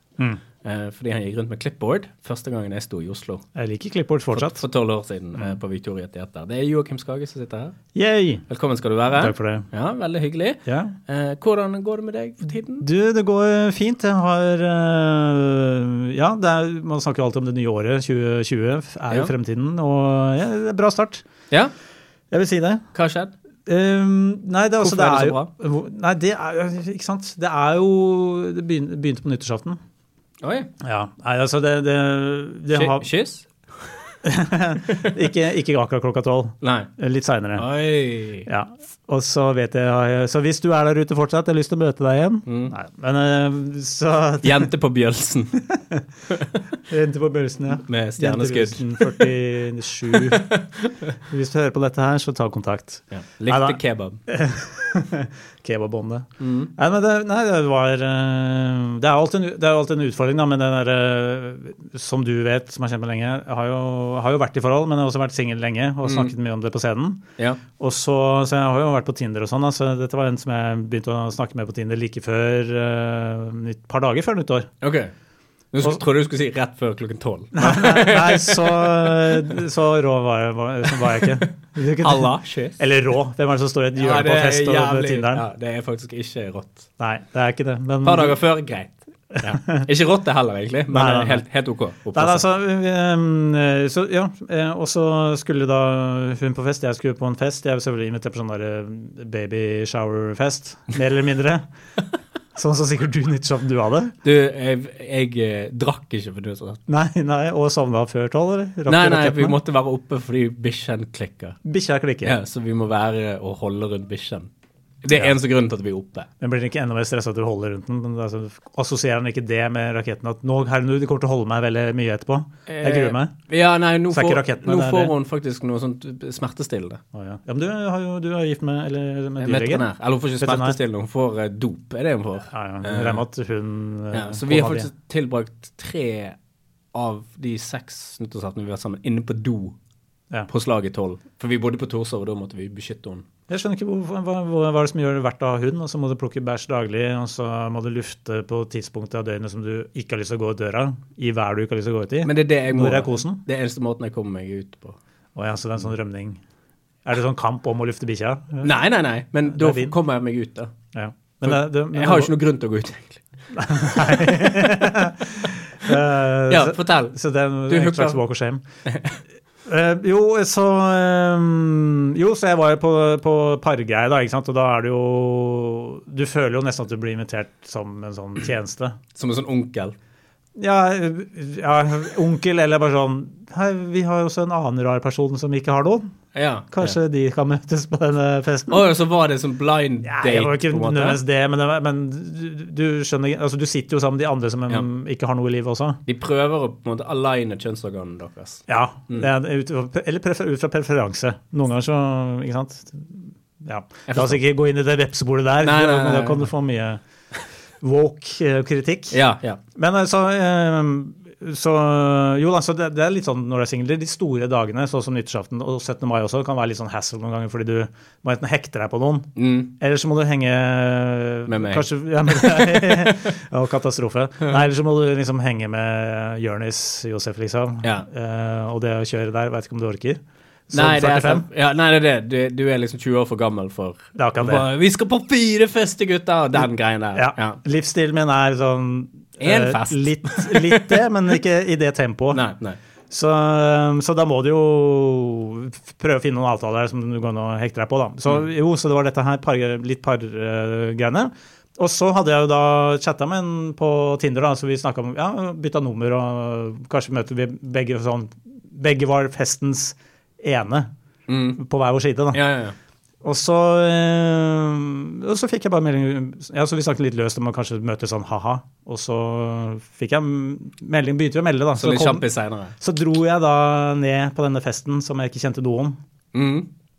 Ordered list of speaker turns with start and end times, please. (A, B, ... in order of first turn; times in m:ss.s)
0:00.6-0:03.4 A
0:03.5-0:04.6 B
0:04.3-0:07.8 A
0:07.9-0:08.4 B
0:08.5-0:12.9 A
0:09.1-0:09.7 B
0:10.6-0:10.9 B
0:12.8-0:21.2 B
0:22.3-0:22.9 B
0:22.9-0:23.3 A
0:23.6-0:29.8 B
0:24.8-0:25.5 A
0:30.4-0:30.7 A
0:30.8-0:33.1 B
0:32.7-0:33.5 A
0:34.2-0:37.6 B
0:34.8-0:35.1 A
0:36.6-0:36.9 A
0:37.6-0:38.5 A
0:38.4-0:44.7 B
0:42.4-0:42.7 A
0:44.4-0:45.6 A
0:45.7-0:46.0 B
0:46.3-0:46.6 A
0:46.9-0:50.5 B
0:47.7-0:49.3 A
0:50.1-0:51.1 A
0:51.3-1:07.2 B
0:53.1-0:54.2 A
0:56.4-0:56.7 A
1:06.0-1:06.3 A
1:07.8-1:14.7 B
1:14.8-1:15.1 A
1:15.7-1:19.4 A
1:17.6-1:25.4 B
1:20.9-1:21.4 A
1:22.0-1:22.8 A
1:24.0-1:26.9 A
1:27.0-1:28.4 B
1:28.0-1:32.4 A
1:29.4-1:29.8 B
1:30.9-1:31.4 B
1:32.1-1:41.7 B
1:42.5-1:44.1 B
1:44.2-1:46.8 A
1:46.9-1:49.6 B
1:48.9-1:51.6 A
1:51.6-1:52.4 B
1:52.2-1:54.5 A
1:55.0-1:56.3 A
1:56.4-2:03.3 B
2:02.7-2:07.0 A
2:04.1-2:05.1 B
2:07.1-2:09.8 B
2:09.4-2:13.2 A
2:10.4-2:10.8 B
2:12.5-2:14.9 B
2:14.1-2:16.4 A
2:16.9-2:19.8 A
2:20.5-2:23.3 A
2:23.5-2:33.4 B
2:32.2-2:35.0 A
2:35.4-2:36.4 B
2:37.0-2:38.7 B
2:38.6-2:40.7 A
2:39.5-2:39.9 B
2:40.9-2:42.3 B
2:41.4-2:43.2 A
2:43.5-2:48.6 B
2:43.7-2:44.4 A
2:46.5-2:47.2 A
2:47.7-2:48.2 A
2:48.8-2:49.2 A
2:49.6-2:59.0 B
2:59.1-2:59.9 A
3:00.6-3:06.1 B
3:06.3-3:07.0 A
3:06.7-3:08.8 B
3:08.7-3:11.2 A
3:10.0-3:16.0 B
3:16.0-3:19.3 A
3:18.7-3:27.0 B
3:24.1-3:24.4 A
3:25.6-3:26.5 A
3:27.8-3:29.2 B
3:29.1-3:29.6 A
3:29.8-3:51.5 B
3:39.4-3:39.7 A
3:41.5-3:41.8 A
3:42.4-3:42.9 A
3:50.7-3:57.6 A
3:54.2-3:54.6 B
3:57.1-4:02.4 B
3:59.4-4:01.0 A
4:02.3-4:02.8 A
4:03.1-4:20.9 B
4:21.3-4:21.6 A
4:21.6-4:22.4 B
4:22.3-4:22.8 A
4:23.2-4:32.2 B
4:31.8-4:32.7 A
4:32.8-4:36.0 B
4:36.3-4:36.7 A